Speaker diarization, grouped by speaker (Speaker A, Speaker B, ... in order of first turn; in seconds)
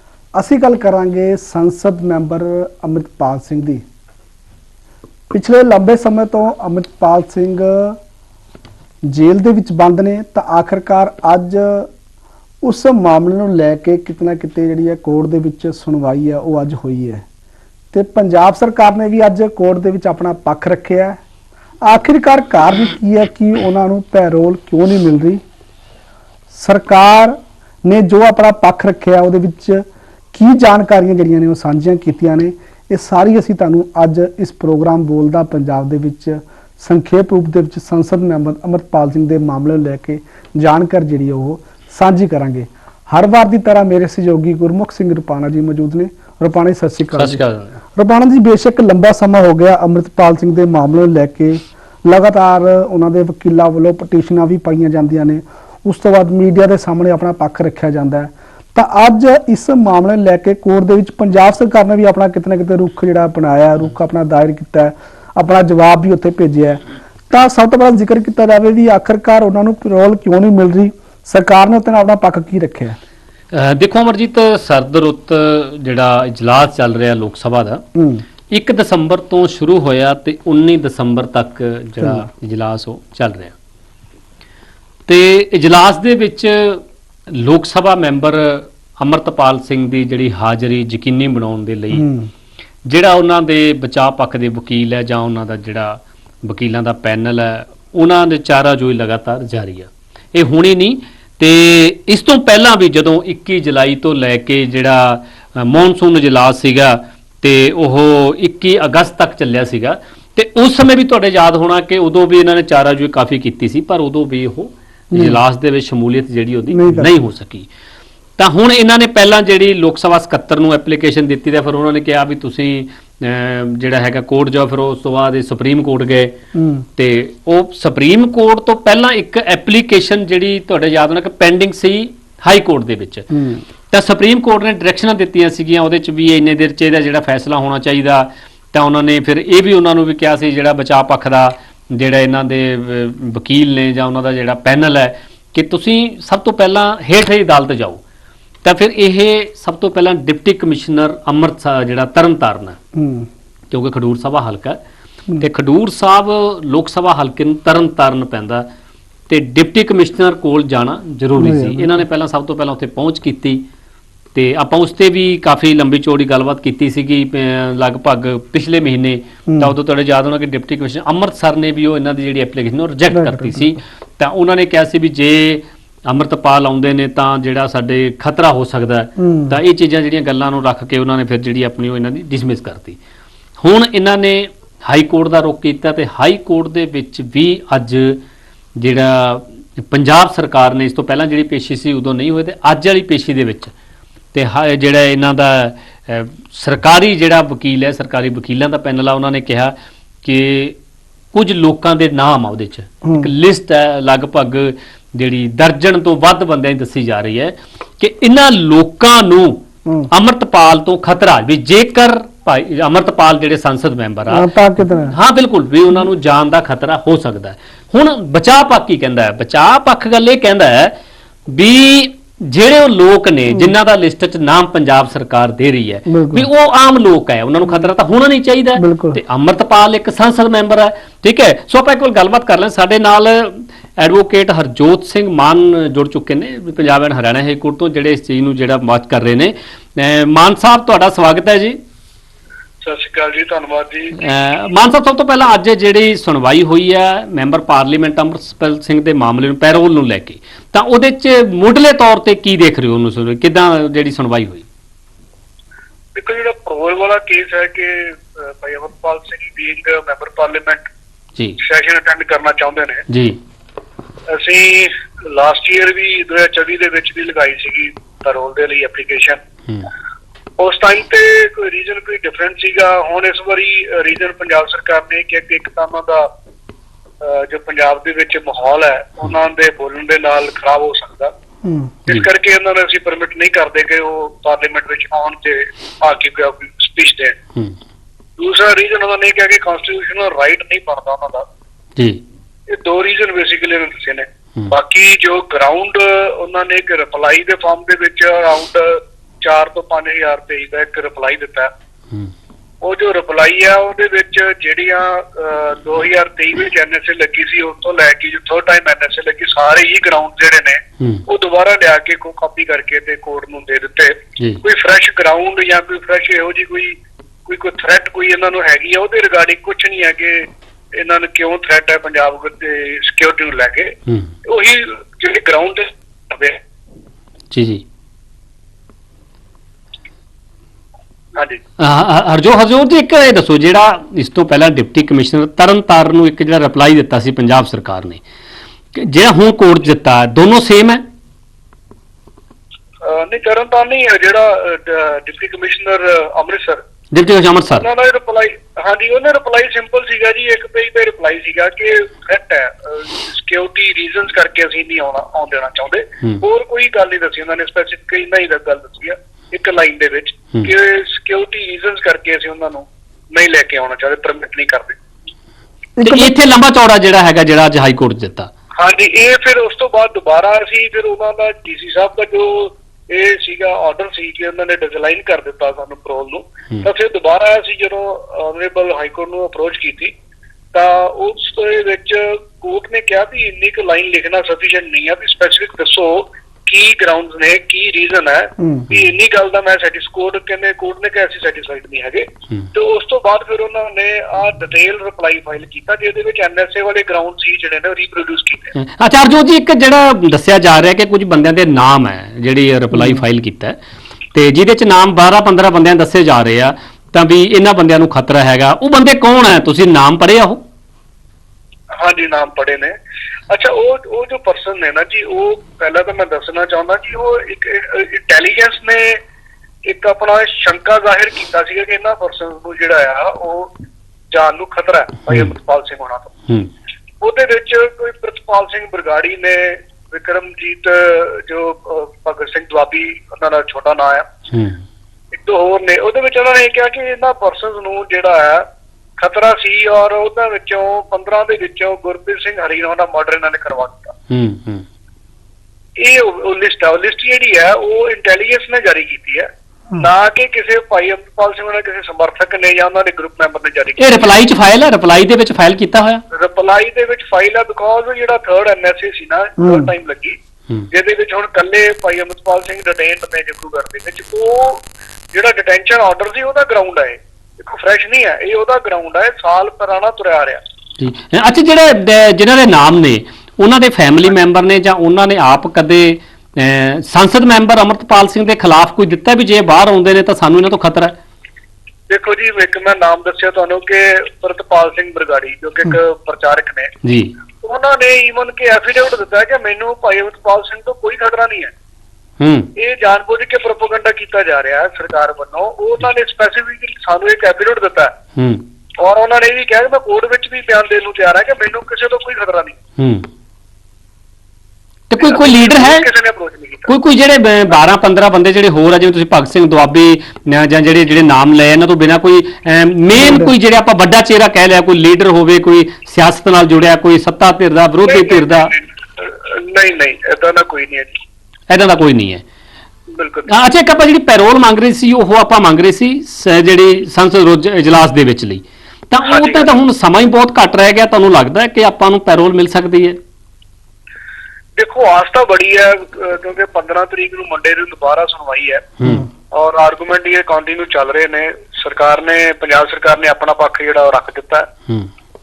Speaker A: 0.4-3.8, 5.3-8.0, 9.1-11.9, 12.6-17.2, 17.9-21.2, 21.9-25.4, 26.5-47.4, 48.0-73.0, 78.0-78.2, 82.0-82.3, 91.9-92.3, 115.1-115.4, 116.7-117.1, 126.5-126.9, 133.3-133.6, 152.9-153.3, 161.4-162.0, 169.5-169.7, 173.1-173.8, 179.2-179.6, 203.0-203.3, 214.3-215.2, 226.1-226.5, 228.8-229.2, 281.6-281.9, 366.0-366.3, 388.6-388.9, 402.9-403.2, 459.6-459.9, 513.2-513.5
Speaker B: 47.1-47.8, 73.5-77.8, 78.5-83.5, 85.1-92.1, 92.9-117.7, 118.4-126.3, 127.0-133.3, 133.9-148.0, 148.7-152.8, 153.7-154.8, 155.4-158.7, 159.3-163.6, 164.3-183.0, 183.6-188.2, 188.8-193.7, 194.3-200.8, 201.3-209.6, 210.1-220.9, 221.5-241.8, 244.2-254.7, 263.1-263.4, 327.5-327.8, 331.8-338.2, 338.9-341.0, 347.1-347.9, 366.0-368.5, 398.8-403.8, 404.4-410.6, 434.5-434.8, 444.3-444.8, 454.0-456.2, 471.0-481.1, 487.0-487.3, 492.4-492.7, 498.4-498.6, 503.0-503.3, 505.1-506.1, 506.9-518.7, 521.7-522.4, 523.5-533.2, 539.0-539.3
Speaker C: 242.8-244.2, 256.1-260.9, 261.6-263.1, 264.3-269.4, 270.6-276.3, 277.2-281.3, 282.1-287.4, 288.4-291.4, 292.7-301.7, 302.8-326.6, 331.4-331.6, 343.0-346.8, 347.8-365.0, 368.8-380.1, 380.7-398.7, 412.0-412.9, 413.5-419.2, 419.9-423.7, 424.3-426.3, 427.2-434.4, 435.3-438.6, 439.2-444.1, 446.0-454.3, 456.3-460.4, 460.9-470.6, 482.1-486.9, 487.6-491.7, 492.8-498.1, 499.0-502.8, 505.2-507.0, 518.0-521.1, 523.1-523.5, 529.2-529.8, 534.8-538.9, 539.5-544.7